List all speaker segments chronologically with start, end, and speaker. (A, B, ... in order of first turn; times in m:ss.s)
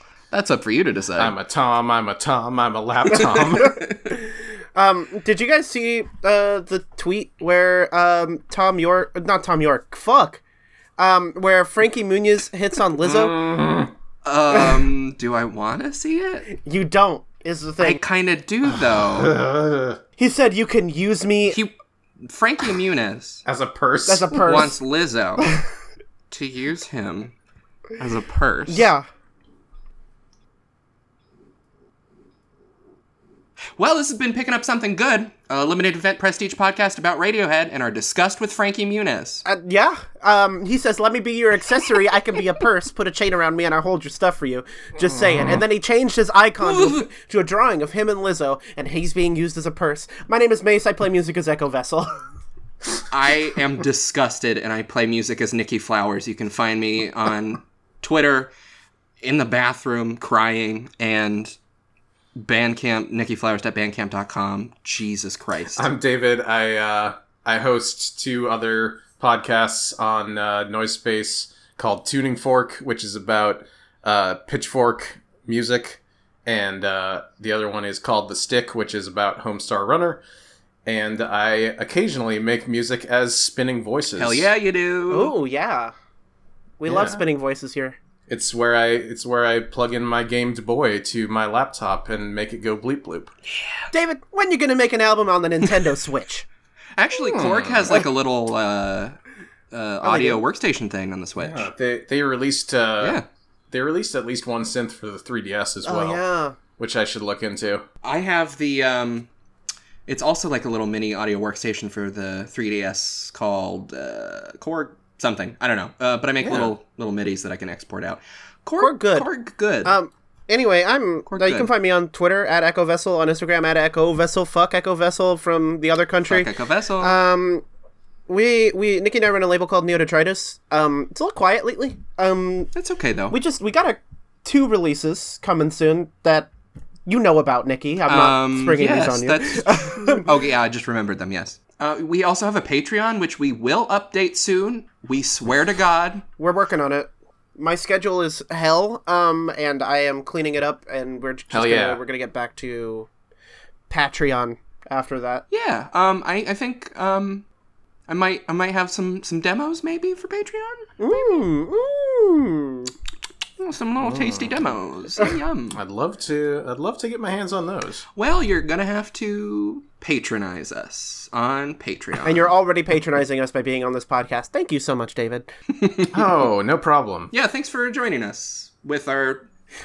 0:00.3-0:01.3 A
0:01.2-0:03.8 B
0:03.1-0:04.0 A
0:03.6-0:10.4 C
0:11.0-0:13.5 C
0:13.0-0:13.9 B
0:14.2-0:16.5 A
0:16.5-0:18.0 C
0:17.8-0:19.4 A
0:18.9-0:20.0 B
0:20.2-0:21.6 C
0:21.5-0:23.4 A
0:23.4-0:24.4 B
0:24.0-0:24.8 C
0:24.4-0:25.5 A
0:26.3-0:27.3 A
0:28.0-0:28.8 A
0:28.7-0:29.0 C
0:33.8-0:39.4 A
0:39.4-0:52.2 C
0:45.1-0:45.6 B
0:46.6-0:47.0 A
0:53.1-0:58.5 A
0:59.2-1:01.5 A
1:02.4-1:05.8 A
1:05.8-1:20.2 B
1:20.8-1:24.5 B
1:24.2-1:25.3 A
1:25.1-1:25.9 C
1:26.8-1:28.0 C
1:26.8-1:27.2 B
1:28.3-1:33.3 B
1:33.5-1:33.9 A
1:33.9-1:36.4 C
1:37.0-1:39.2 A
1:37.3-1:38.0 B
1:39.7-1:41.7 A
1:40.0-1:40.4 C
1:41.4-1:46.2 B
1:45.8-1:46.6 C
1:46.8-1:47.8 B
1:48.0-1:49.3 A
1:50.1-1:59.9 A
1:56.4-1:56.7 B
1:58.8-1:59.3 C
1:59.8-2:07.6 C
2:01.3-2:01.7 A
2:06.2-2:07.2 A
2:08.3-2:12.7 C
2:12.7-2:13.4 A
2:13.3-2:16.5 C
2:17.1-2:20.2 C
2:18.1-2:26.2 A
2:26.4-2:33.1 C
2:31.5-2:32.0 B
2:33.9-2:35.4 C
2:35.5-2:37.4 A
2:38.1-2:40.9 A
2:41.0-2:42.9 C
2:43.6-2:45.8 A
2:44.0-2:44.6 B
2:45.7-2:48.0 B
2:48.1-2:52.5 A
2:52.2-2:55.5 C
2:55.8-2:56.3 A
2:56.1-2:57.3 B
2:57.3-2:59.5 A